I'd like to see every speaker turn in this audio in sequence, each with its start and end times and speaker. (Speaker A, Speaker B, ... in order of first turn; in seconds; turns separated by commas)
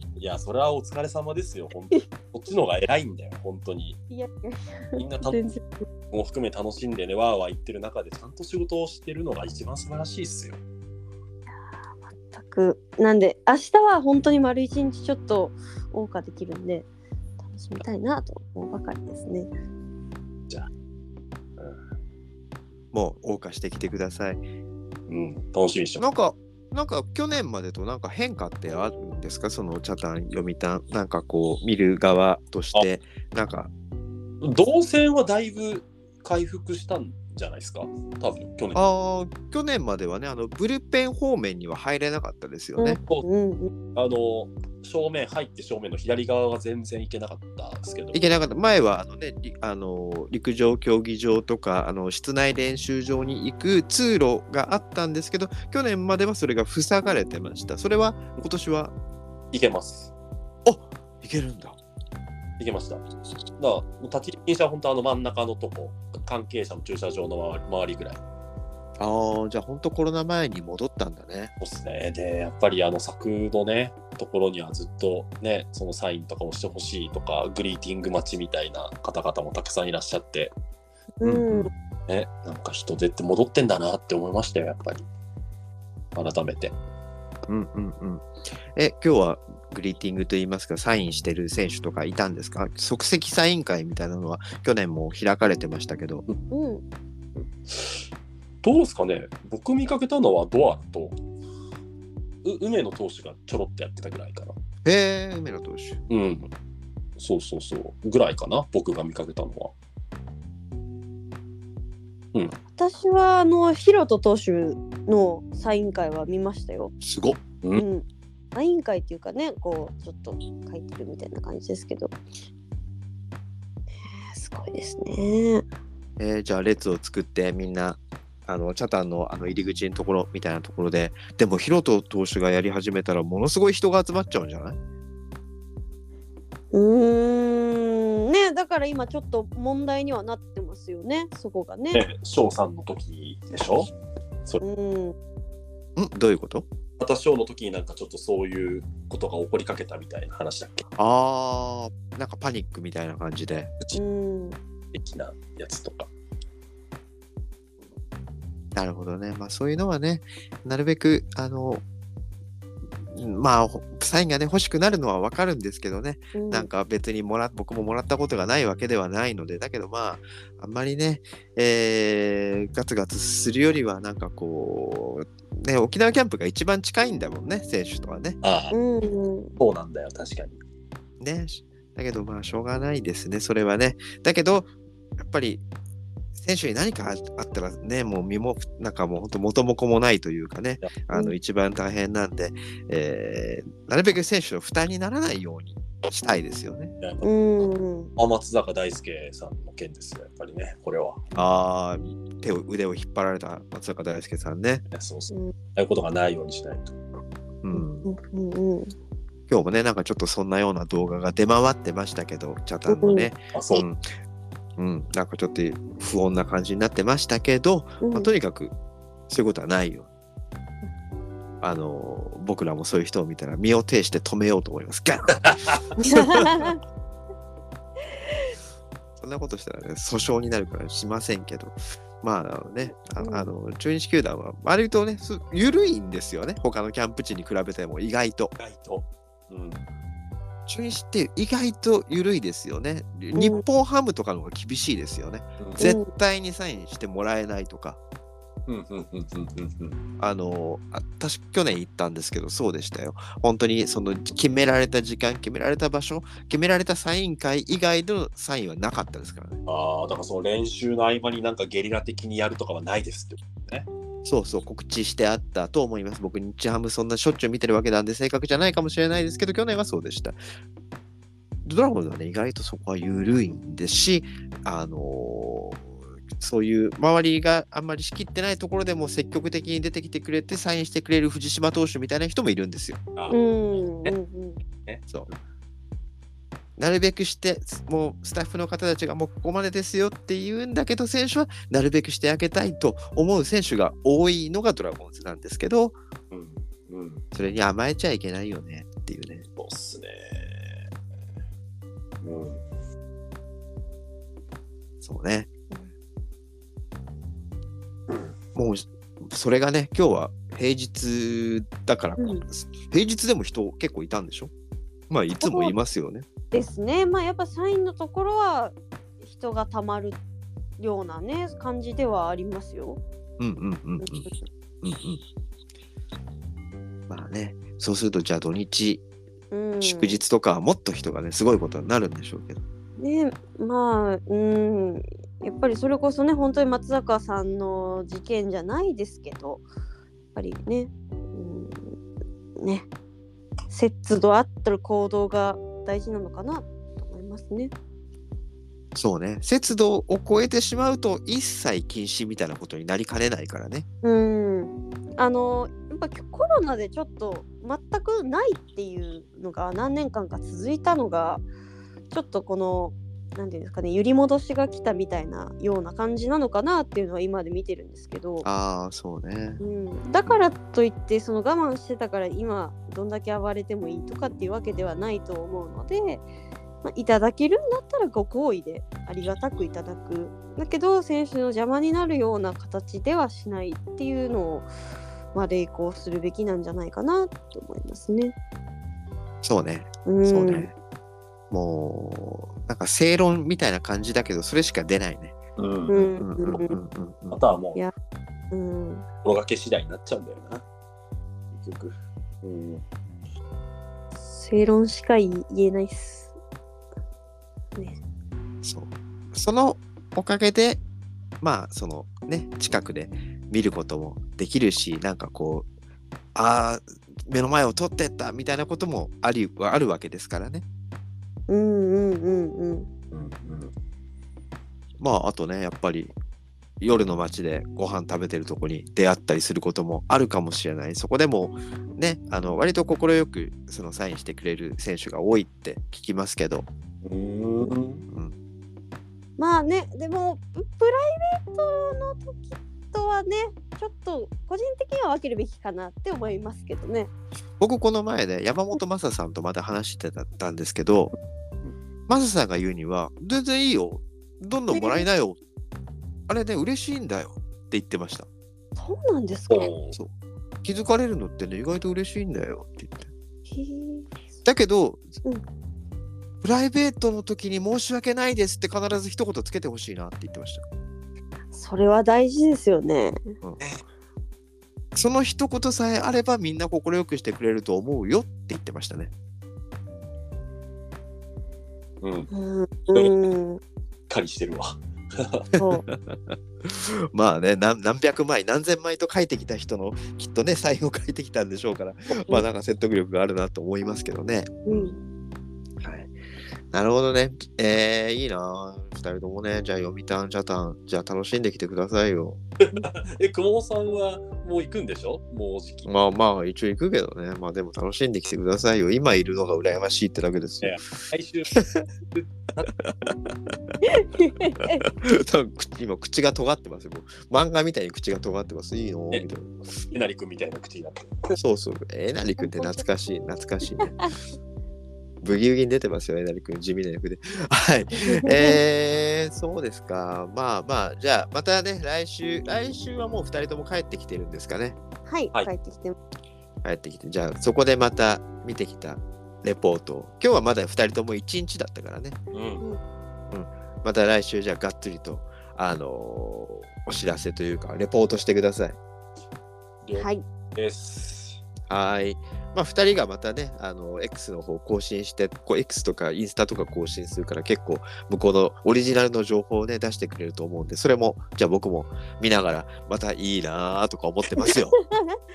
Speaker A: 0.2-4.0, Speaker B: 4.1-5.8, Speaker A: 5.0-5.4, Speaker A: 6.1-10.6, Speaker B: 12.0-16.9, Speaker B: 17.4-19.5, Speaker C: 22.9-24.4, Speaker A: 25.1-26.0, Speaker C: 26.0-33.7, Speaker A: 34.4-38.8, Speaker C: 38.7-43.0, Speaker B: 42.8-43.7, Speaker A: 43.9-48.3, Speaker C: 48.1-58.9, Speaker A: 59.5-60.1, Speaker C: 60.6-61.8, Speaker A: 62.6-63.0, Speaker A: 63.6-68.2, Speaker C: 69.0-71.5, Speaker A: 71.6-80.5, Speaker B: 81.2-81.7, Speaker C: 81.2-81.7, Speaker A: 82.1-85.0, Speaker A: 86.1-86.7, Speaker C: 87.5-96.2, Speaker B: 96.5-96.8, Speaker A: 97.4-98.0, Speaker A: 98.6-101.2, Speaker A: 102.4-104.5, Speaker C: 104.8-106.0, Speaker A: 106.1-106.5, Speaker A: 107.2-109.7, Speaker B: 112.7-116.9, Speaker C: 117.0-117.4, Speaker B: 117.7-122.2, Speaker B: 124.0-125.7, Speaker C: 126.2-134.8, Speaker B: 136.7-142.0, Speaker A: 141.9-143.9, Speaker B: 144.6-145.1, Speaker C: 145.9-146.7, Speaker A: 147.0-150.8, Speaker C: 150.9-153.7, Speaker B: 153.9-154.6, Speaker A: 154.9-156.1, Speaker C: 158.7-161.8, Speaker C: 163.1-178.4, Speaker B: 166.3-166.7, Speaker A: 178.4-178.8, Speaker B: 178.7-179.6, Speaker A: 179.6-180.6, Speaker C: 181.2-185.6, Speaker C: 186.3-196.9, Speaker A: 197.0-197.3, Speaker B: 197.2-198.1, Speaker A: 198.2-201.3, Speaker C: 201.3-204.8, Speaker A: 204.9-207.0, Speaker C: 207.6-208.1, Speaker B: 207.7-208.9, Speaker C: 209.5-214.1, Speaker B: 212.9-213.3, Speaker A: 213.5-213.8, Speaker C: 214.8-218.7, Speaker B: 218.0-218.3, Speaker C: 219.3-220.1, Speaker C: 221.6-226.7, Speaker A: 225.4-225.8, Speaker B: 226.0-226.8, Speaker C: 229.2-238.5, Speaker B: 233.2-233.5, Speaker A: 238.6-239.9, Speaker C: 240.7-248.0, Speaker B: 243.3-243.6, Speaker A: 245.6-245.9, Speaker B: 245.8-246.1, Speaker A: 248.7-250.0, Speaker C: 250.2-259.6, Speaker A: 259.7-263.9, Speaker C: 264.2-270.4, Speaker C: 271.6-283.0, Speaker A: 283.1-284.1, Speaker B: 283.3-284.6, Speaker A: 284.8-285.3, Speaker C: 286.8-295.9, Speaker A: 296.3-297.2, Speaker C: 297.3-299.4, Speaker A: 299.6-300.8, Speaker A: 302.2-302.6, Speaker C: 305.0-305.5, Speaker C: 308.5-314.5, Speaker B: 312.2-312.4, Speaker C: 315.1-316.2, Speaker B: 315.4-315.7, Speaker B: 316.5-320.2, Speaker B: 320.8-323.0, Speaker C: 323.4-324.3, Speaker B: 324.0-324.4, Speaker C: 324.8-325.2, Speaker C: 327.1-329.0, Speaker B: 329.5-330.2, Speaker C: 329.8-332.6, Speaker B: 333.0-339.6, Speaker B: 340.3-341.9, Speaker B: 342.6-342.9, Speaker B: 343.7-347.7, Speaker C: 348.9-353.9, Speaker B: 354.0-361.4, Speaker B: 362.1-368.4, Speaker C: 368.4-369.6, Speaker B: 369.6-376.2, Speaker B: 376.8-384.7, Speaker B: 385.3-388.3, Speaker C: 389.4-390.7, Speaker B: 390.1-390.7, Speaker C: 391.5-395.4, Speaker A: 395.6-396.6, Speaker B: 395.9-396.8, Speaker C: 396.2-397.4, Speaker A: 397.3-397.8, Speaker B: 398.5-399.1, Speaker A: 399.2-400.6, Speaker A: 401.5-402.8, Speaker B: 404.3-406.3, Speaker C: 408.6-410.8, Speaker C: 411.4-415.7, Speaker C: 416.3-420.6, Speaker B: 421.5-422.9, Speaker A: 423.1-423.7, Speaker C: 425.0-426.1, Speaker C: 426.8-436.7, Speaker A: 437.0-438.0, Speaker C: 438.1-438.3, Speaker B: 439.4-447.1, Speaker C: 447.6-451.1, Speaker C: 452.1-455.4, Speaker B: 454.7-455.1, Speaker C: 456.3-458.3, Speaker B: 458.8-459.7, Speaker A: 459.5-460.0, Speaker C: 460.6-463.1, Speaker B: 463.5-464.2, Speaker C: 464.4-465.2, Speaker C: 466.4-470.6, Speaker B: 471.5-473.3, Speaker C: 473.4-473.8, Speaker C: 474.9-479.1, Speaker A: 482.0-482.3, Speaker B: 482.3-483.6, Speaker A: 482.9-483.2, Speaker A: 484.1-485.5, Speaker B: 485.6-485.8, Speaker C: 485.7-494.9, Speaker B: 494.6-495.0, Speaker C: 495.8-496.1, Speaker C: 496.7-502.4, Speaker A: 502.6-505.9, Speaker C: 505.9-510.8, Speaker A: 510.6-511.5, Speaker C: 511.5-511.9, Speaker A: 512.1-512.7, Speaker C: 512.8-513.1, Speaker B: 513.8-514.8, Speaker C: 514.6-519.6, Speaker A: 519.9-521.3, Speaker C: 521.4-524.0, Speaker B: 522.4-522.8, Speaker C: 525.2-534.8, Speaker B: 528.1-528.6, Speaker B: 535.1-536.0, Speaker C: 536.6-542.2, Speaker A: 542.3-542.6, Speaker C: 543.3-548.8, Speaker A: 549.8-551.4, Speaker B: 549.9-550.2, Speaker C: 551.7-564.7, Speaker B: 564.4-565.2